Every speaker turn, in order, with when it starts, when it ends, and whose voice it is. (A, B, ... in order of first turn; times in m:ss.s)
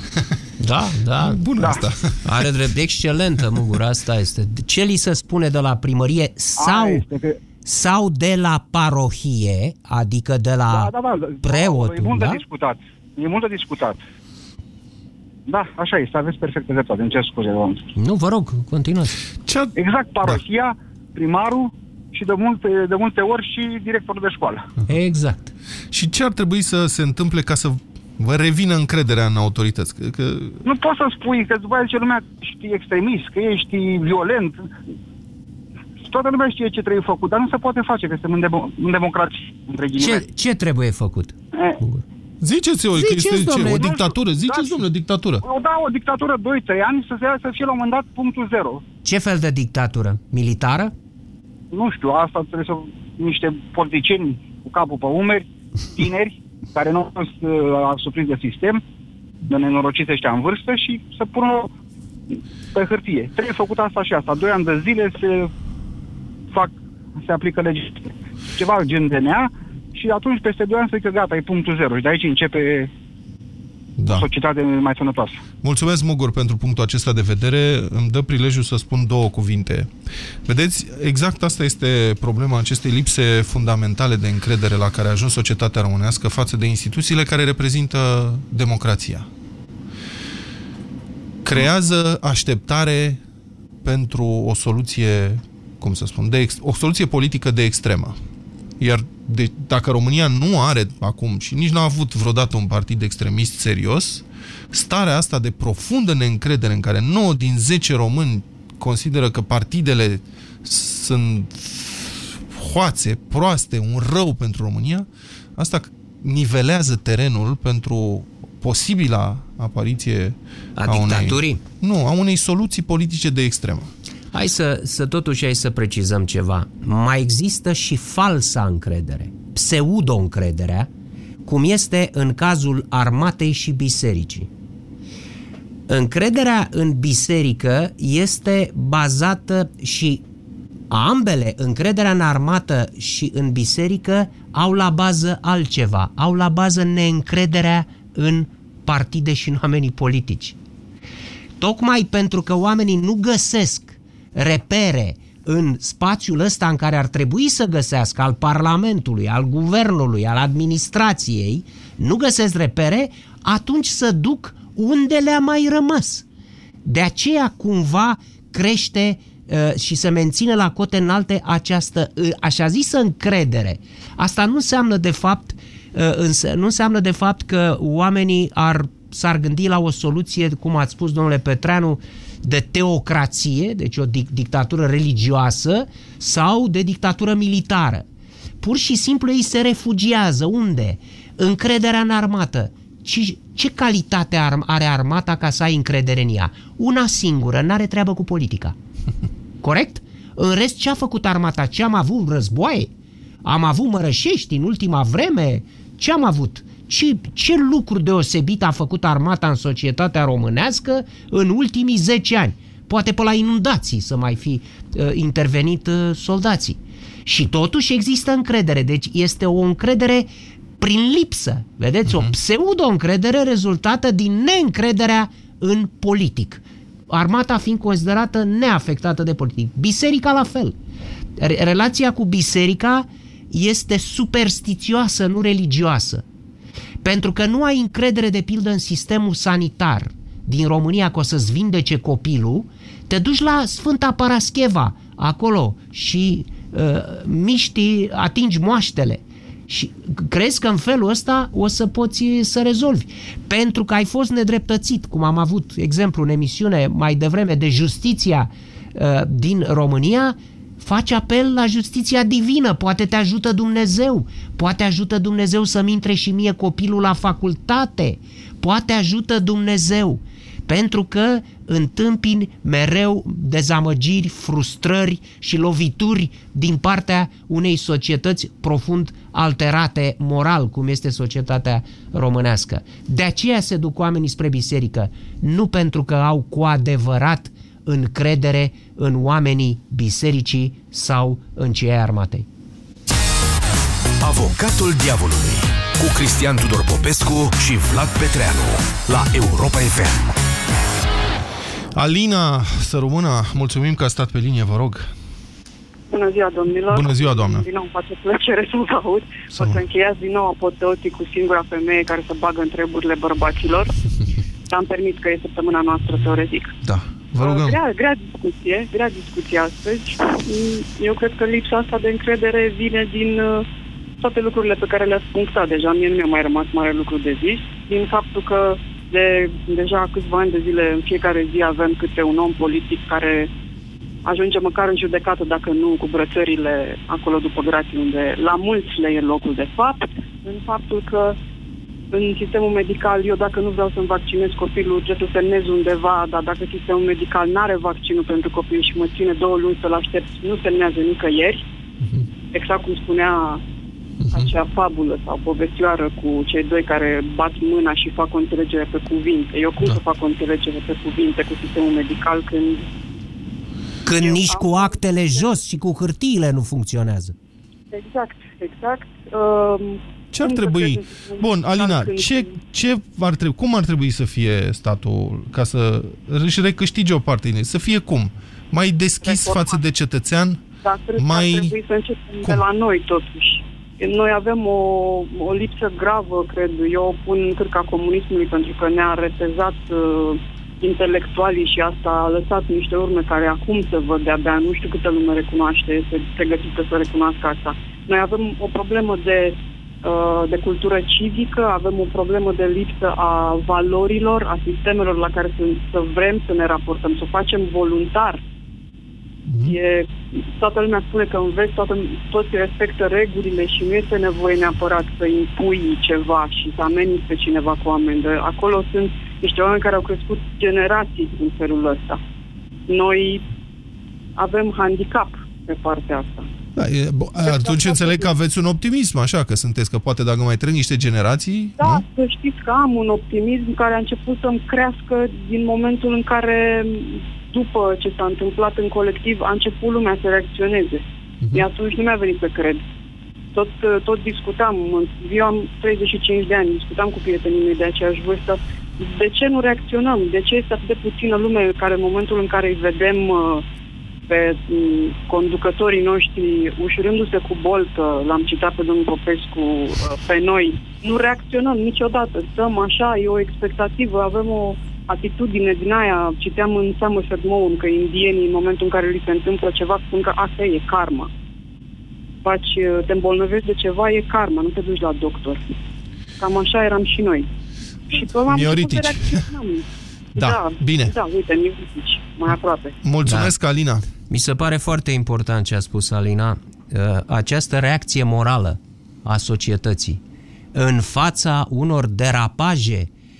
0:00.6-0:01.6 A
0:01.2-0:02.4 B
0:01.6-0:01.8 C
0:02.2-0:07.0 A
0:06.6-0:07.4 C
0:07.6-0:12.4 A
0:10.7-0:14.0 C
0:15.5-0:17.9 C
0:18.0-0:19.2 A
0:19.4-0:20.4 B
0:19.8-0:24.7 C
0:24.9-0:25.5 A
0:25.9-0:30.6 B
0:30.6-0:34.7 C
0:36.0-0:40.2 C
0:40.0-0:42.0 A
0:42.4-0:45.4 B
0:42.9-0:43.8 A
0:43.6-0:44.9 C
0:45.4-0:48.8 C
0:49.0-0:50.9 A
0:51.7-0:58.8 C
0:59.5-1:01.7 C
1:02.7-1:05.5 C
1:06.5-1:12.9 C
1:14.0-1:14.3 B
1:14.0-1:15.4 C
1:15.6-1:19.9 B
1:20.4-1:29.3 B
1:31.4-1:33.2 B
1:33.8-1:38.2 B
1:38.8-2:03.9 B
2:00.8-2:01.6 A
2:04.3-2:10.9 A
2:11.4-2:14.5 A
2:15.9-2:20.2 A
2:20.9-2:30.6 A
2:31.6-2:46.2 A
2:46.8-3:08.0 A
3:08.6-3:18.8 A
3:19.6-3:22.9 A
3:23.4-3:40.3 A
3:40.8-3:50.8 A
3:51.4-3:56.2 A
3:57.0-4:52.4 A
4:54.2-5:00.3 D
5:02.0-5:05.1 B
5:06.1-5:13.9 E
5:06.9-5:07.7 B
5:09.5-5:09.8 B
5:14.7-5:16.7 E
5:16.8-5:17.8 B
5:17.4-5:23.6 E
5:24.2-5:33.5 E
5:34.2-5:41.4 E
5:42.1-5:51.6 E
5:52.5-5:53.6 E
5:54.2-5:54.5 B
5:54.3-6:02.8 E
6:04.0-6:07.3 A
6:04.2-6:05.6 E
6:07.9-6:12.6 E
6:10.3-6:20.6 B
6:19.2-6:19.8 E
6:20.8-6:48.4 E
6:21.2-6:21.7 B
6:49.5-6:49.8 B
6:49.6-7:02.2 E
7:02.9-7:03.4 E
7:04.4-7:06.4 E
7:06.8-7:12.0 B
7:07.4-7:08.3 E
7:11.8-7:22.8 E
7:23.5-7:33.6 E
7:34.3-7:51.3 E
7:52.4-7:55.6 E
7:56.4-7:57.5 E
7:58.1-8:03.0 E
7:58.4-7:59.5 B
8:00.3-8:01.2 B
8:03.0-8:04.0 B
8:03.2-8:03.5 A
8:04.3-8:10.2 A
8:10.7-8:13.1 A